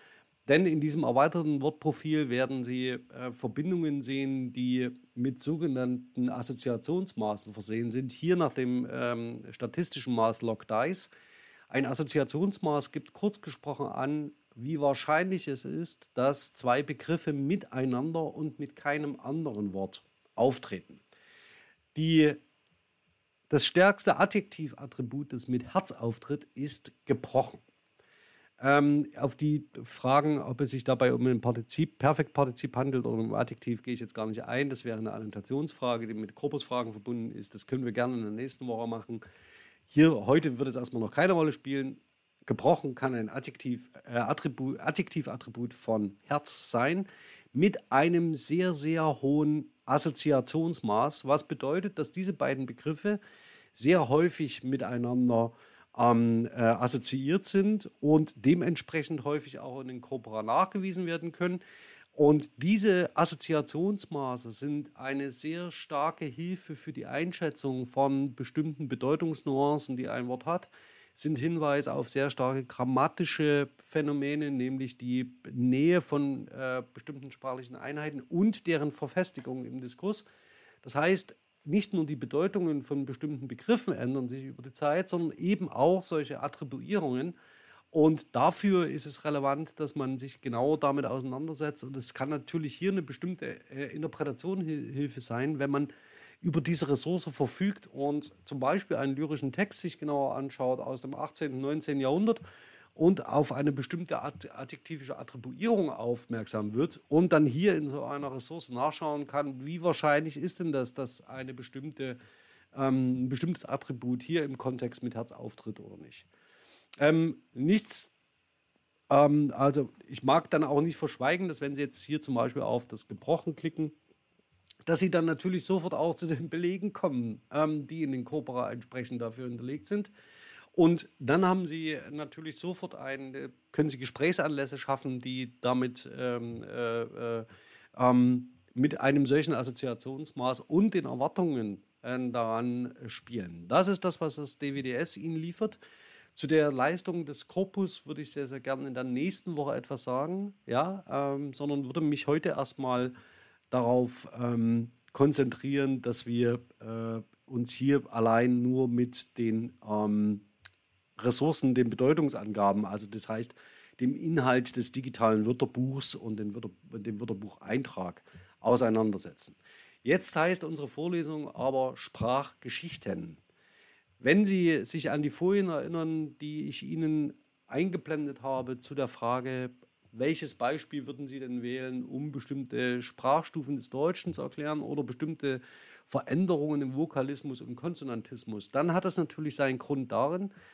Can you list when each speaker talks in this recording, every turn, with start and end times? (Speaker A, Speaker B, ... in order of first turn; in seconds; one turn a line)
Speaker A: 0.5-11.1
Speaker A: 11.7-21.0
Speaker A: 21.9-22.4
Speaker A: 23.5-27.6
Speaker A: 28.6-39.2
Speaker A: 39.9-53.2
Speaker A: 53.7-61.6
Speaker A: 62.1-80.2
Speaker A: 80.8-87.3
Speaker A: 87.9-102.4
Speaker A: 103.0-112.2
Speaker A: 112.7-116.3
Speaker A: 117.0-118.1
Speaker A: 119.1-123.9
Speaker A: 124.8-130.1
Speaker A: 130.7-145.8
Speaker A: 146.3-153.1
Speaker A: 153.7-160.4
Speaker A: 161.2-173.4
Speaker A: 174.2-190.5